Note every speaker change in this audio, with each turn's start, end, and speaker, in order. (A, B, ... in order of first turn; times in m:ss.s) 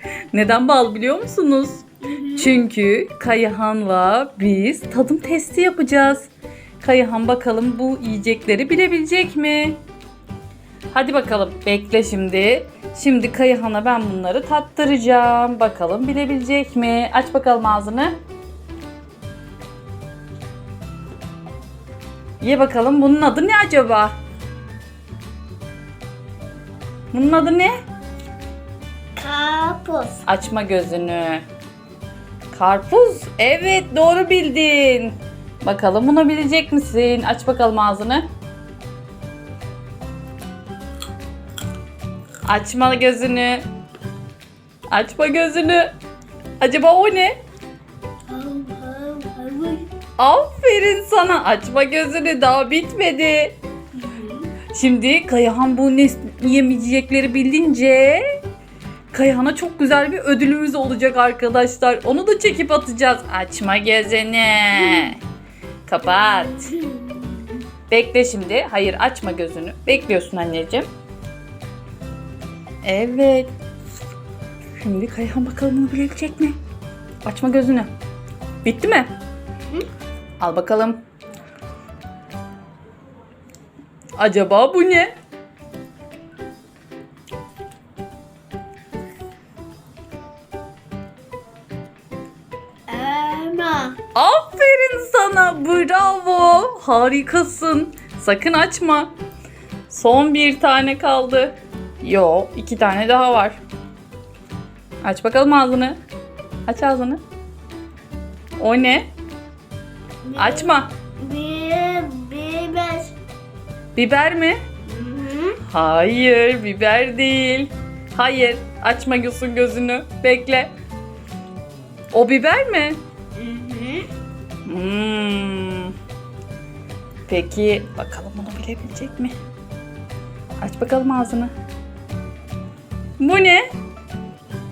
0:00.3-0:01.8 A
0:02.0-0:02.5 B
0:02.4-0:06.3 A
0:06.8-0:09.8 A
0:10.9-0:18.2 A
0:22.4-0:24.2 A
0:27.1-0:27.8 A
0:29.2-0:30.2 B
0:30.3-0:31.5 A
0:32.5-0:38.3 A
0:42.5-0:43.7 A
0:44.9-0:45.9 A
0:46.6-0:47.4 A
0:48.3-0:49.9 B
0:50.2-0:53.6 A
0:54.0-0:54.5 B
0:54.7-0:58.4 A
0:59.1-1:05.2 A
1:04.8-1:05.1 B
1:05.9-1:06.7 A
1:06.5-1:07.6 B
1:07.9-1:10.9 A
1:12.8-1:13.5 A
1:14.8-1:16.6 A
1:17.2-1:17.9 A
1:18.6-1:19.1 A
1:20.4-1:21.0 A
1:24.2-1:25.1 A
1:32.9-1:34.0 B
1:34.2-1:39.1 A
1:39.9-1:43.6 A
1:45.0-1:46.0 A
1:46.7-1:47.2 A
1:48.6-1:49.1 A
1:50.2-1:53.1 B
1:50.4-1:50.9 A
1:54.0-1:54.6 A
1:54.8-1:55.6 B
1:55.7-2:00.7 A
2:02.1-2:03.0 A
2:03.4-2:04.1 B
2:04.6-2:05.9 A
2:07.3-2:09.4 A
2:10.6-2:11.5 A
2:13.2-2:13.7 A